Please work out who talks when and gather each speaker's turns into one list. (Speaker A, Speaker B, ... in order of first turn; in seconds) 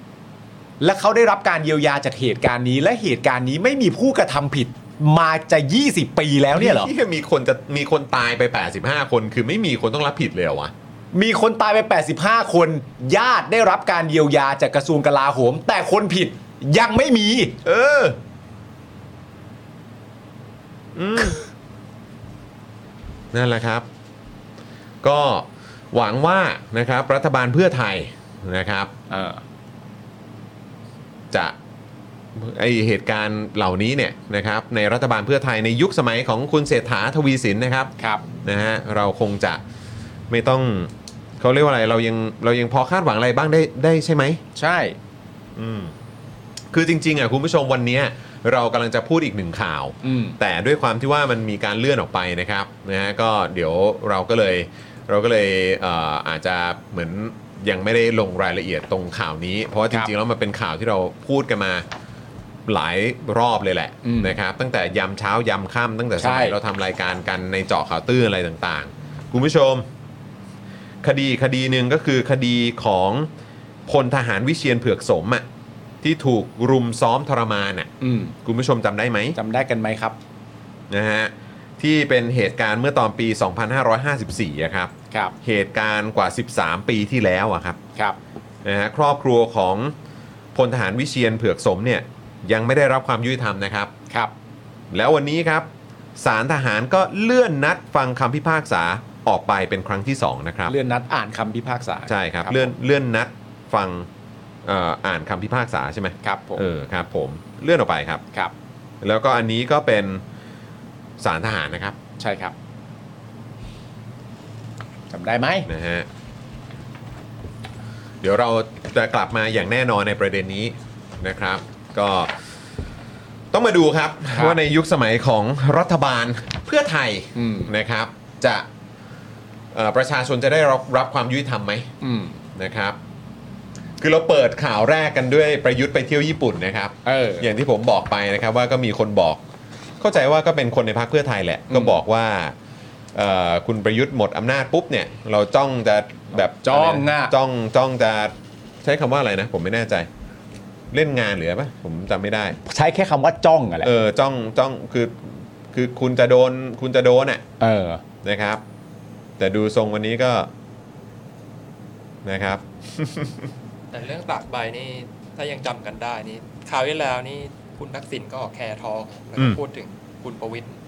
Speaker A: 0.8-6.9, 11.1-17.6, 29.1-29.4, 44.6-45.0, 50.0-50.4, 64.0-64.4, 66.2-66.6, 78.0-78.3, 79.3-80.2, 100.7-102.7, 106.2-106.7, 112.2-112.5, 115.1-115.7, 124.3-124.6, 127.3-127.7, 132.0-132.4, 137.1-137.5, 141.7-141.9, 146.6-147.3, 152.7-153.9, 157.6-158.0
Speaker B: 6.5-10.7, 17.6-18.2, 20.9-21.4, 23.3-23.9, 25.0-28.9, 31.3-31.6, 32.4-37.9, 38.4-39.6, 40.3-44.4, 45.6-45.9, 46.7-61.9, 62.7-69.9, 71.0-73.3, 73.9-75.5, 76.0-77.9, 78.4-79.4, 80.9-87.8, 88.6-89.9, 90.5-93.9, 94.9-100.8, 102.1-104.1, 104.7-108.2, 109.0-110.2, 111.2-112.0, 115.7-116.1, 118.2-122.3, 123.5-128.7, 129.7-131.9, 132.6-133.0, 134.0-139.4, 140.0-142.6, 143.1-150.1, 150.9-152.6, 153.8-157.4, 158.2-158.6, 159.4-160.5, 162.2-163.5
Speaker C: 163.9-170.8